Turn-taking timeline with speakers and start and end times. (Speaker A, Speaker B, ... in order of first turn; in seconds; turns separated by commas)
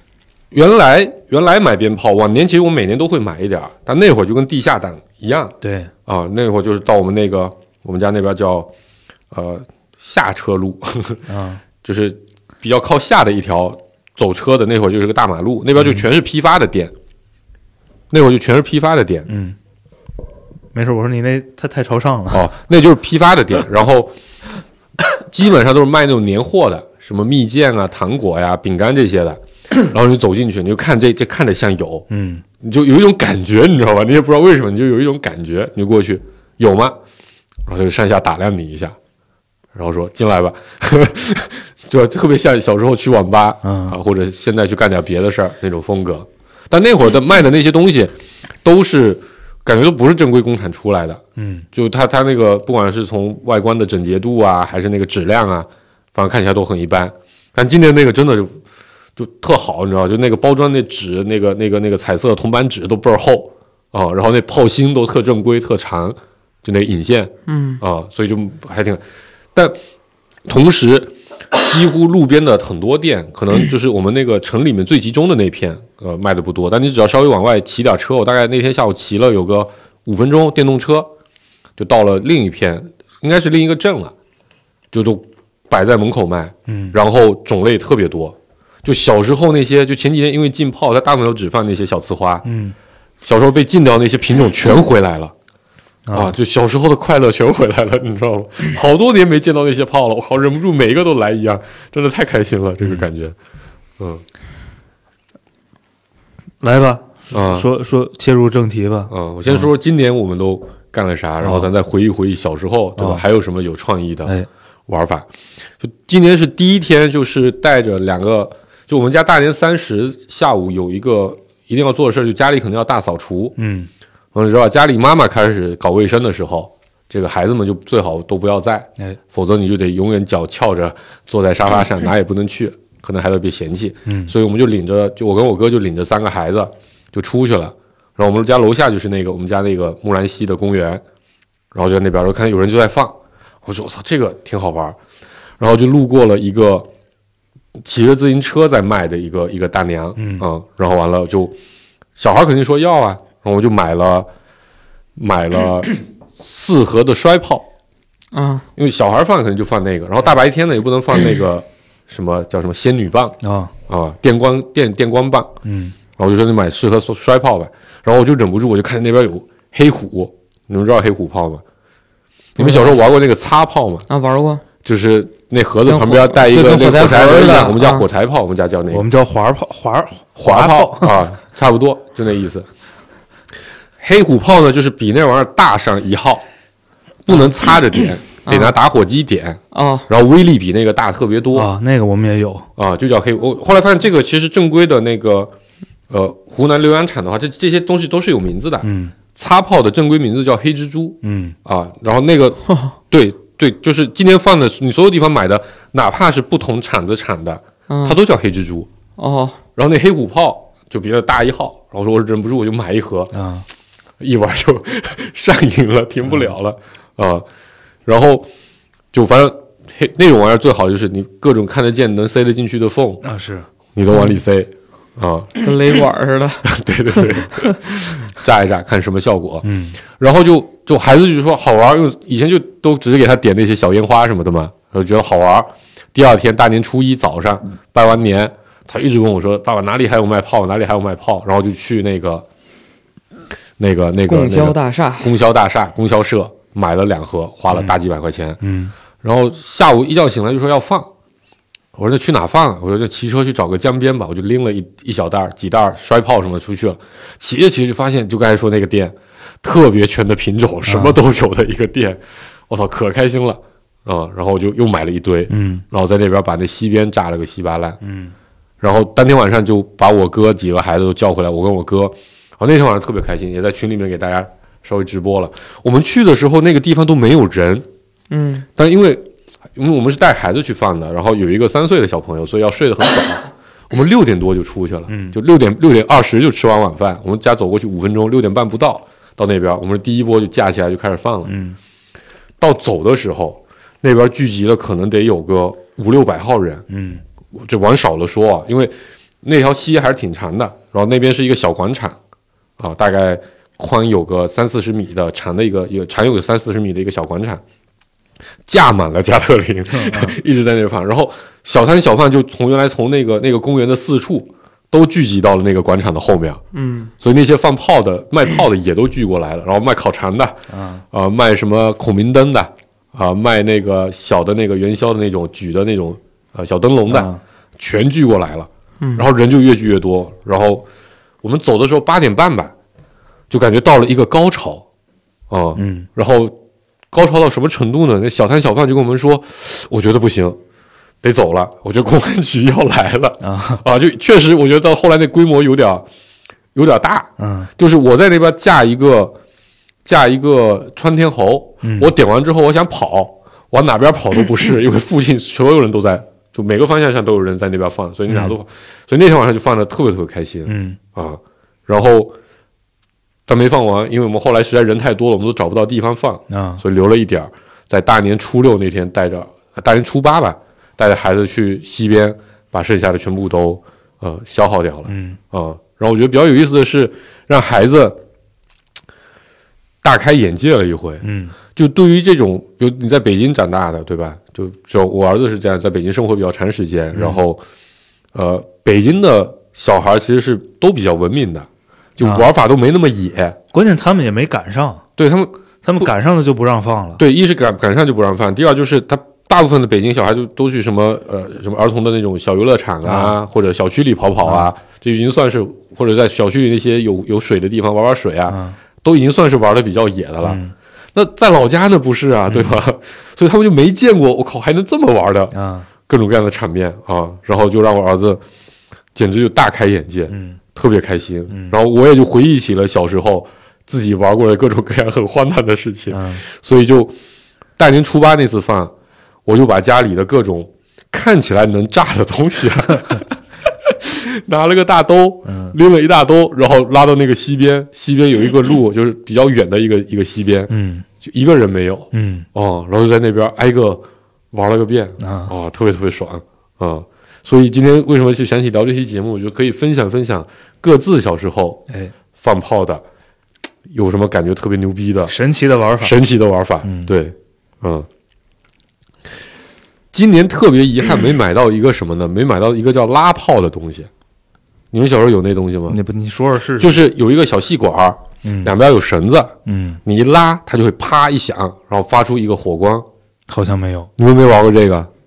Speaker A: 0.5-8.7, Speaker B: 5.6-5.9, Speaker A: 9.3-11.2, Speaker B: 11.3-11.6, Speaker A: 11.8-16.9, Speaker B: 15.8-16.0, Speaker A: 18.1-19.3, Speaker B: 19.3-19.6, Speaker B: 20.7-22.5, Speaker A: 22.3-24.1, Speaker A: 25.1-32.1, Speaker B: 32.1-32.4, Speaker A: 32.6-37.0, Speaker A: 37.6-39.0, Speaker A: 39.7-51.2, Speaker B: 43.6-44.0, Speaker B: 51.4-51.6, Speaker A: 51.7-58.6, Speaker A: 59.2-69.0, Speaker C: 67.5-67.8, Speaker A: 70.4-81.1, Speaker A: 81.8-84.1, Speaker A: 84.9-92.5, Speaker B: 86.7-86.9, Speaker B: 92.5-92.8, Speaker A: 93.2-95.3, Speaker B: 96.1-96.3, Speaker A: 96.1-103.3, Speaker A: 104.0-104.2, Speaker B: 106.6-109.7, Speaker A: 107.3-107.7, Speaker A: 109.1-114.4, Speaker B: 111.4-111.7, Speaker A: 114.9-115.3, Speaker A: 115.8-123.5, Speaker B: 123.6-123.9, Speaker A: 124.3-141.0, Speaker B: 134.1-134.3, Speaker A: 141.7-145.0, Speaker A: 145.6-146.9, Speaker A: 147.8-151.5, Speaker B: 150.2-150.5, Speaker A: 152.2-154.3, Speaker A: 155.2-157.7, Speaker C: 158.3-158.6, Speaker A: 158.8-163.4, Speaker B: 163.4-163.7, Speaker A: 163.9-165.5, Speaker B: 165.6-165.9, Speaker A: 166.2-171.6, Speaker A: 172.6-174.1, Speaker C: 172.6-173.0, Speaker C: 174.1-174.6, Speaker A: 174.8-179.1, Speaker C: 175.9-178.1, Speaker B: 178.9-181.2, Speaker A: 180.4-182.7, Speaker A: 184.0-186.4, Speaker A: 187.2-191.7, Speaker C: 188.5-188.7, Speaker C: 189.7-190.1, Speaker B: 191.5-192.7, Speaker A: 192.8-195.5, Speaker A: 196.1-208.9, Speaker B: 198.8-199.1, Speaker B: 201.2-201.5, Speaker C: 207.9-208.2, Speaker C: 209.2-209.6, Speaker A: 209.8-213.3, Speaker B: 213.3-213.6, Speaker A: 214.2-217.4, Speaker A: 218.1-218.5, Speaker A: 219.1-223.2, Speaker B: 223.2-223.7, Speaker A: 223.9-225.7, Speaker C: 225.6-226.7, Speaker A: 226.6-242.4, Speaker C: 227.3-227.7, Speaker B: 229.6-230.0, Speaker A: 243.8-248.6, Speaker C: 244.3-245.3, Speaker B: 248.6-248.9, Speaker A: 249.2-251.1, Speaker A: 251.9-268.0, Speaker B: 260.9-261.2, Speaker B: 265.5-265.8, Speaker B: 268.0-268.3, Speaker A: 268.8-277.9, Speaker C: 278.3-278.6, Speaker A: 278.8-291.5, Speaker B: 285.1-285.4, Speaker B: 291.5-291.8, Speaker A: 292.6-296.9, Speaker B: 296.9-297.2, Speaker A: 297.5-302.2, Speaker A: 302.8-307.6, Speaker A: 308.6-316.6, Speaker B: 309.9-310.4, Speaker C: 316.7-317.1, Speaker A: 317.2-320.6, Speaker B: 320.7-321.0, Speaker A: 321.1-330.9, Speaker B: 327.1-327.4, Speaker C: 329.0-329.2, Speaker A: 331.4-332.7, Speaker A: 333.5-334.9, Speaker A: 335.5-336.6, Speaker B: 335.8-336.1, Speaker A: 337.1-340.6, Speaker A: 341.2-346.1, Speaker B: 343.4-343.8, Speaker A: 346.8-349.4, Speaker B: 347.4-347.7, Speaker A: 350.0-362.3, Speaker B: 351.8-352.1, Speaker B: 358.3-358.5, Speaker B: 360.6-361.0, Speaker A: 363.5-378.2, Speaker B: 366.5-366.8, Speaker B: 375.1-375.4, Speaker A: 380.0-387.6, Speaker B: 381.2-381.6, Speaker B: 387.1-387.4, Speaker A: 388.3-393.6, Speaker B: 392.2-392.5, Speaker B: 393.7-395.0, Speaker A: 395.2-396.1, Speaker B: 395.8-397.2, Speaker A: 397.2-410.6, Speaker B: 403.0-403.4, Speaker B: 404.4-404.7, Speaker B: 408.5-408.8, Speaker B: 410.4-410.7, Speaker A: 411.1-415.5, Speaker B: 412.5-412.8, Speaker B: 415.5-415.9, Speaker A: 416.1-418.4, Speaker A: 419.1-427.1, Speaker B: 420.3-420.6, Speaker B: 421.5-421.8, Speaker B: 426.1-426.4, Speaker A: 427.8-428.9, Speaker A: 429.5-451.8, Speaker B: 435.5-435.8, Speaker B: 440.7-441.0, Speaker B: 442.1-442.5, Speaker B: 445.2-445.5, Speaker A: 452.4-453.0, Speaker A: 453.9-455.3, Speaker B: 455.3-456.1, Speaker A: 456.0-458.1, Speaker B: 456.8-457.1, Speaker A: 460.1-464.1, Speaker A: 464.9-466.0, Speaker B: 465.9-467.0, Speaker A: 466.8-473.1, Speaker B: 468.4-468.7, Speaker B: 469.6-470.0, Speaker B: 473.5-474.1, Speaker A: 474.2-475.1